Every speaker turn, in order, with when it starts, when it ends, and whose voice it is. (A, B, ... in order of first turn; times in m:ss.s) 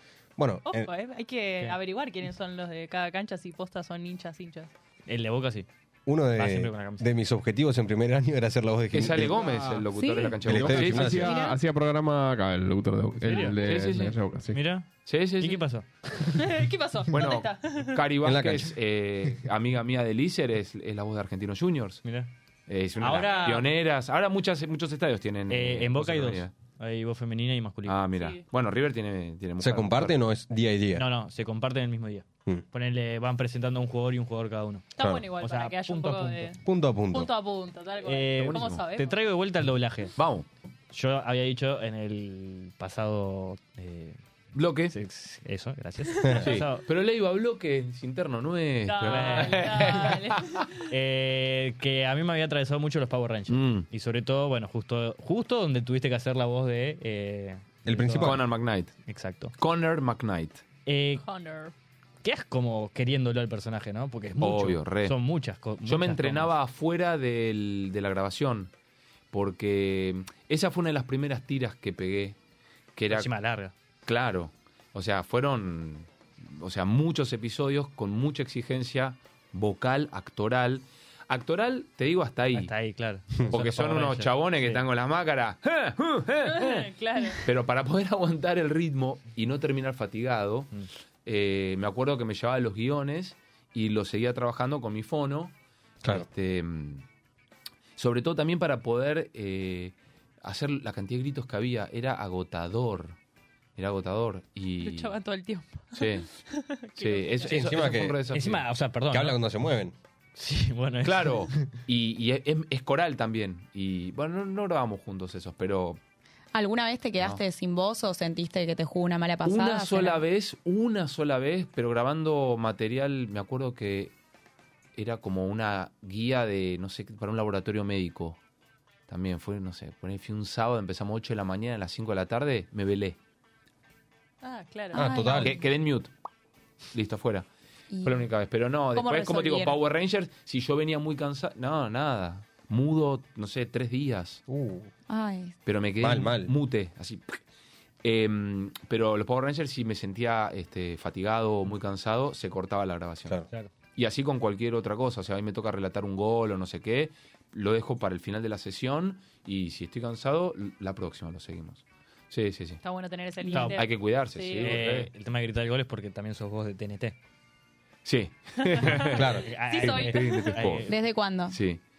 0:00.4-0:00.9 A
0:00.6-0:04.7 B
0:05.1-0:05.7 C
0:06.0-0:09.4 A
0:06.3-0:07.0 C
0:08.9-0:11.3 D
0:09.9-0:10.4 E
0:10.4-0:11.4 A
0:10.6-0:14.6 F
0:11.3-0:11.5 B
0:13.2-0:13.6 C
0:13.5-0:14.2 D
0:14.5-0:15.9 C
0:15.0-0:15.6 D
0:16.3-0:18.0 B
0:17.1-0:22.0 D
0:18.2-0:18.7 A
0:22.0-0:22.3 C
0:22.7-0:26.5 D
0:23.0-0:23.7 C
0:23.1-0:23.7 B
0:25.5-0:28.0 C
0:27.8-0:30.2 D
0:28.1-0:28.4 B
0:29.6-0:31.0 A
0:30.9-0:34.8 C
0:35.0-0:36.6 B
0:35.0-0:35.2 A
0:35.4-0:36.5 C
0:36.6-0:37.3 A
0:37.1-0:39.2 B
0:38.0-0:40.1 C
0:38.4-0:38.8 D
0:40.2-0:40.4 D
0:40.9-0:44.2 C
0:44.5-0:44.9 D
0:44.8-0:46.9 C
0:46.1-0:46.4 B
0:46.4-0:50.4 D
0:48.8-0:50.9 B
0:49.0-0:50.1 C
0:50.9-0:59.5 C
0:53.5-0:53.9 D
0:57.8-0:58.4 A
0:58.2-0:59.0 D
0:59.6-1:00.6 D
1:00.8-1:01.2 C
1:01.2-1:01.7 B
1:02.2-1:06.6 C
1:04.4-1:05.2 D
1:05.8-1:08.7 D
1:09.3-1:12.4 D
1:13.0-1:13.3 D
1:13.1-1:13.7 C
1:14.0-1:22.7 D
1:22.5-1:24.9 C
1:23.5-1:26.9 D
1:26.5-1:27.4 B
1:27.4-1:30.7 D
1:31.2-1:37.0 D
1:38.0-1:43.2 D
1:43.8-1:45.2 D
1:44.8-1:47.7 B
1:45.9-1:46.3 D
1:47.0-1:48.6 D
1:47.4-1:48.2 A
1:48.3-1:49.4 C
1:49.1-1:49.9 A
1:50.4-1:51.6 C
1:51.0-1:56.0 D
1:56.5-2:00.2 E
1:59.4-2:04.1 D
2:05.0-2:08.4 D
2:09.1-2:13.2 D
2:14.4-2:15.2 B
2:14.9-2:15.6 E
2:15.0-2:15.5 A
2:15.4-2:16.1 D
2:16.9-2:17.4 D
2:17.9-2:18.3 E
2:18.0-2:24.4 D
2:18.9-2:19.8 E
2:24.5-2:24.9 A
2:25.1-2:25.6 E
2:25.6-2:27.4 D
2:26.0-2:26.5 A
2:28.0-2:42.8 D
2:42.8-2:44.8 B
2:43.4-2:43.7 E
2:43.5-2:43.9 C
2:43.8-2:45.1 D
2:44.6-2:47.2 C
2:48.0-2:50.9 D
2:48.6-2:50.7 B
2:49.0-2:51.0 C
2:49.0-2:49.4 A
2:50.8-2:51.6 E
2:51.5-2:51.8 D